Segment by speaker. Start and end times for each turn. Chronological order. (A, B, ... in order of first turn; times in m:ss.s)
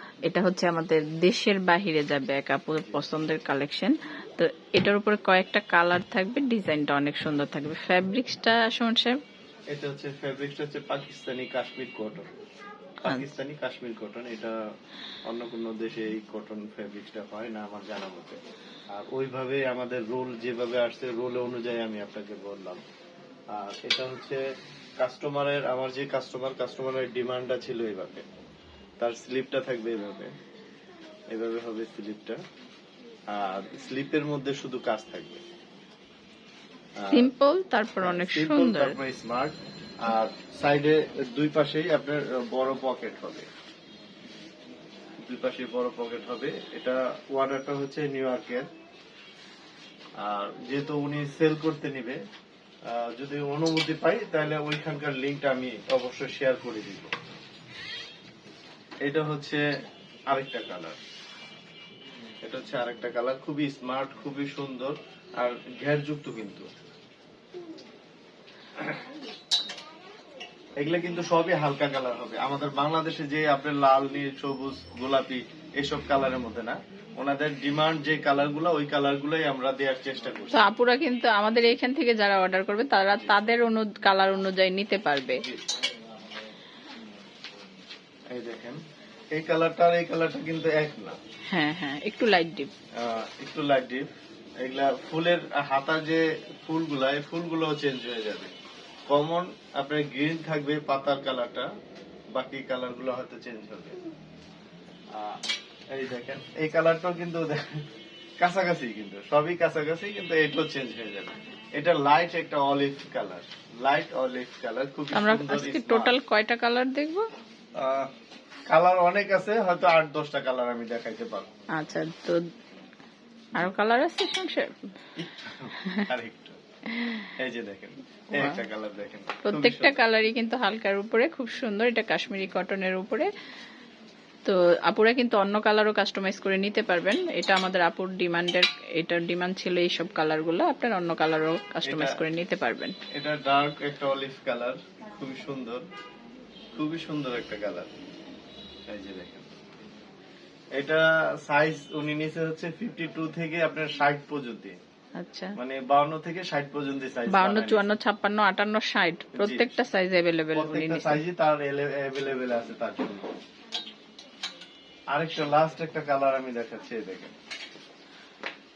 0:00.2-0:09.2 A
0:09.7-0:12.3 B
0:13.0-0:14.6 B
0:13.0-0:13.3 A
0:15.3-0:18.4 B
0:18.9-0:22.8 B
0:23.5-0:24.4 B
0:25.0-0:28.3 B
0:29.0-0:30.3 B
0:31.3-0:32.4 B
0:33.3-0:35.4 B
0:37.0-0:37.3 B
0:37.1-0:39.0 A
0:38.0-0:43.5 B
0:45.3-0:48.7 B
0:50.2-0:52.2 B
0:52.9-0:57.1 B
0:59.0-0:59.6 B
1:00.3-1:01.0 B
1:02.4-1:06.7 B
1:10.8-1:20.7 B
1:20.5-1:25.4 A
1:25.4-1:25.7 B
1:28.3-1:28.8 B
1:29.3-1:31.2 B
1:31.5-1:32.7 A
1:33.0-1:34.1 B
1:34.6-1:38.5 B
1:39.1-1:41.7 B
1:42.3-1:44.0 B
1:45.1-1:45.4 B
1:45.9-1:47.8 B
1:48.4-1:56.2 B
1:55.1-1:57.2 A
1:57.8-1:58.1 B
1:58.7-2:01.5 B
2:01.7-2:02.4 A
2:03.6-2:04.9 A
2:05.2-2:06.6 B
2:06.9-2:07.3 A
2:07.4-2:10.0 B
2:08.3-2:08.6 A
2:09.4-2:13.3 A
2:14.4-2:23.0 A
2:21.8-2:22.2 B
2:23.1-2:25.8 B
2:26.7-2:27.9 B
2:28.9-2:29.5 B
2:30.8-2:34.8 B
2:35.2-2:35.6 A
2:35.6-2:37.9 B
2:37.3-2:41.2 A
2:39.4-2:39.8 B
2:40.6-2:43.3 B
2:45.1-2:47.3 B